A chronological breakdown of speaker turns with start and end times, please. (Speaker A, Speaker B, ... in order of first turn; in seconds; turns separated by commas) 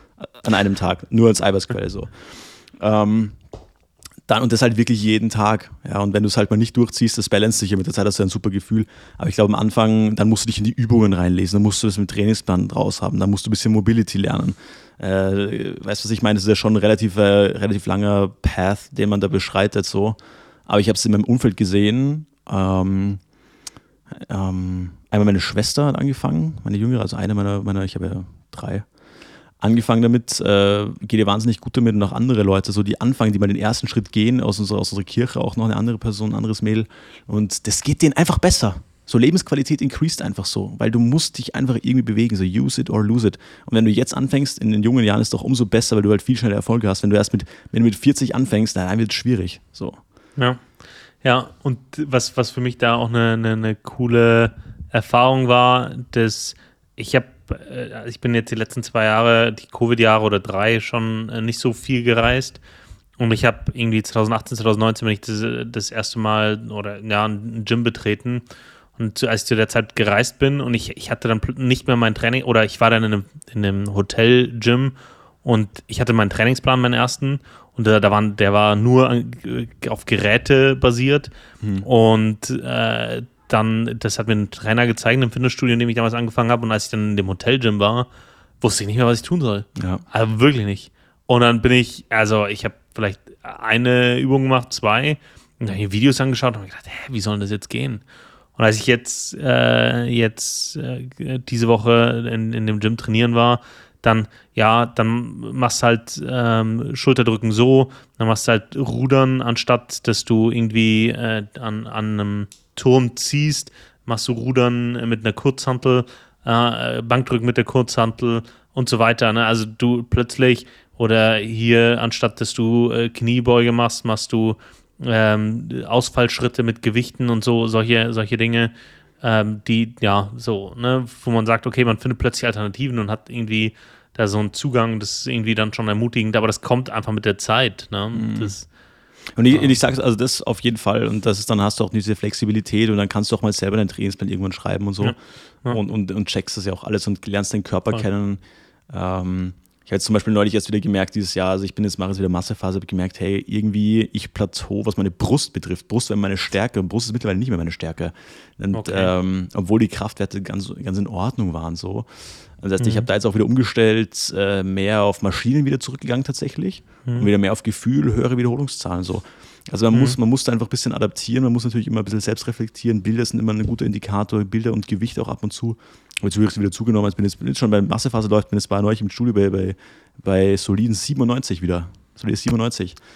Speaker A: 0.2-3.4, Speaker A: 4.3-23.2, Speaker A: 24.2-28.9, Speaker A: 29.6-50.0, Speaker B: 50.4-50.6, Speaker B: 51.2-62.6, Speaker B: 63.2-68.4, Speaker B: 69.0-81.3, Speaker B: 81.8-88.1, Speaker B: 88.6-98.0, Speaker A: 89.8-90.0, Speaker B: 98.5-138.7, Speaker A: 138.1-138.5, Speaker A: 139.3-162.1, Speaker B: 145.0-145.8, Speaker B: 158.7-159.1, Speaker A: 162.6-183.0, Speaker B: 162.8-163.1, Speaker B: 169.9-170.2